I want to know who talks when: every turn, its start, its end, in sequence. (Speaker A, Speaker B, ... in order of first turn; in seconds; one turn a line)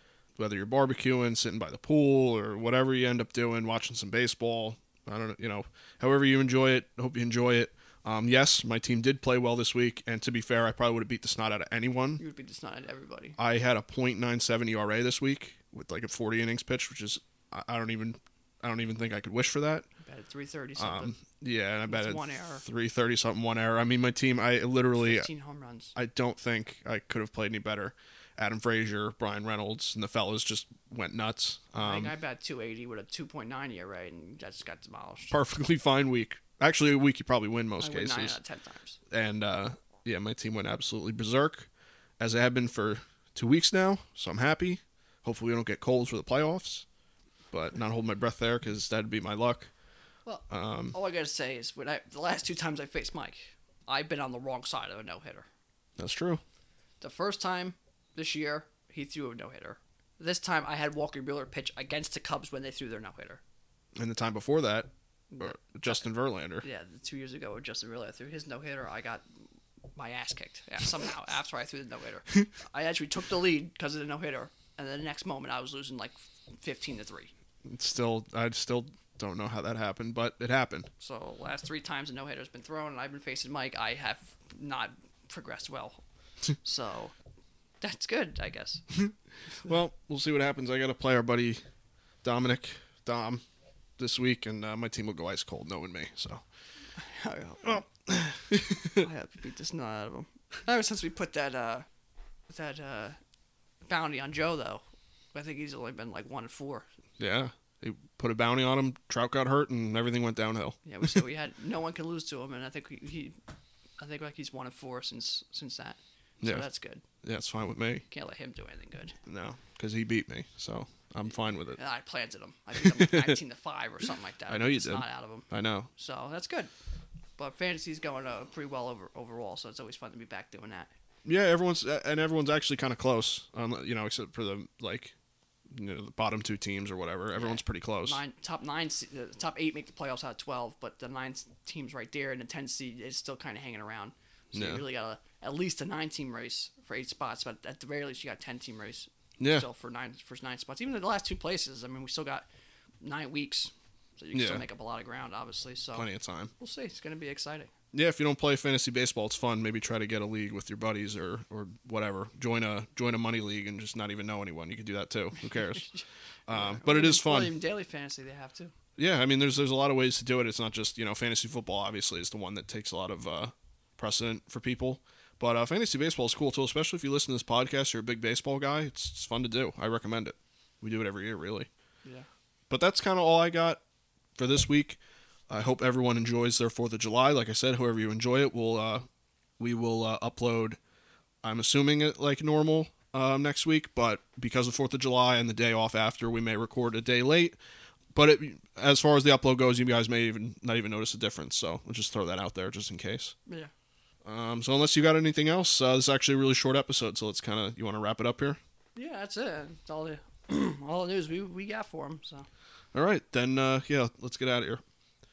Speaker A: 0.4-12.2
Speaker B: 12.2-13.4
Speaker A: 13.4-19.9
Speaker B: 20.0-21.2
Speaker A: 20.8-25.3
Speaker B: 21.9-22.6
Speaker B: 24.9-25.9
Speaker A: 25.9-32.1
Speaker B: 31.8-35.4
Speaker A: 35.3-38.4
Speaker B: 37.8-39.0
Speaker A: 39.1-41.7
Speaker A: 42.2-46.9
Speaker A: 47.5-49.7
Speaker B: 50.2-55.5
Speaker A: 50.5-51.0
Speaker A: 56.0-56.4
Speaker B: 57.0-63.4
Speaker A: 64.0-66.7
Speaker B: 65.3-66.0
Speaker B: 66.6-77.3
Speaker A: 77.7-80.9
Speaker B: 81.0-86.0
Speaker B: 86.6-87.1
Speaker B: 87.8-88.9
Speaker A: 89.0-91.6
Speaker A: 92.2-93.4
Speaker A: 94.0-96.4
Speaker B: 96.9-97.9
Speaker A: 97.6-99.1
Speaker B: 98.9-101.9
Speaker B: 102.5-103.2
Speaker B: 103.8-104.8
Speaker B: 105.3-106.9
Speaker A: 107.2-111.2
Speaker B: 110.8-113.4
Speaker B: 114.0-117.0
Speaker A: 117.2-118.0
Speaker B: 118.1-119.2
Speaker A: 119.3-121.8
Speaker B: 121.8-126.7
Speaker A: 122.8-123.4
Speaker A: 124.5-125.9
Speaker B: 127.4-130.9
Speaker A: 131.3-135.1
Speaker A: 135.7-138.2
Speaker B: 137.4-152.5
Speaker A: 144.5-144.8
Speaker A: 149.4-149.7
Speaker B: 153.0-156.1
Speaker A: 154.3-154.6
Speaker A: 155.9-156.5
Speaker B: 156.6-157.7
Speaker A: 157.9-165.9
Speaker B: 165.4-168.8
Speaker A: 166.5-167.6
Speaker A: 169.0-181.7
Speaker A: 182.7-183.8
Speaker A: 184.4-189.1
Speaker A: 189.6-190.8
Speaker A: 191.4-197.6
Speaker A: 198.1-203.3
Speaker A: 204.2-208.6
Speaker B: 208.9-212.5
Speaker A: 212.9-214.8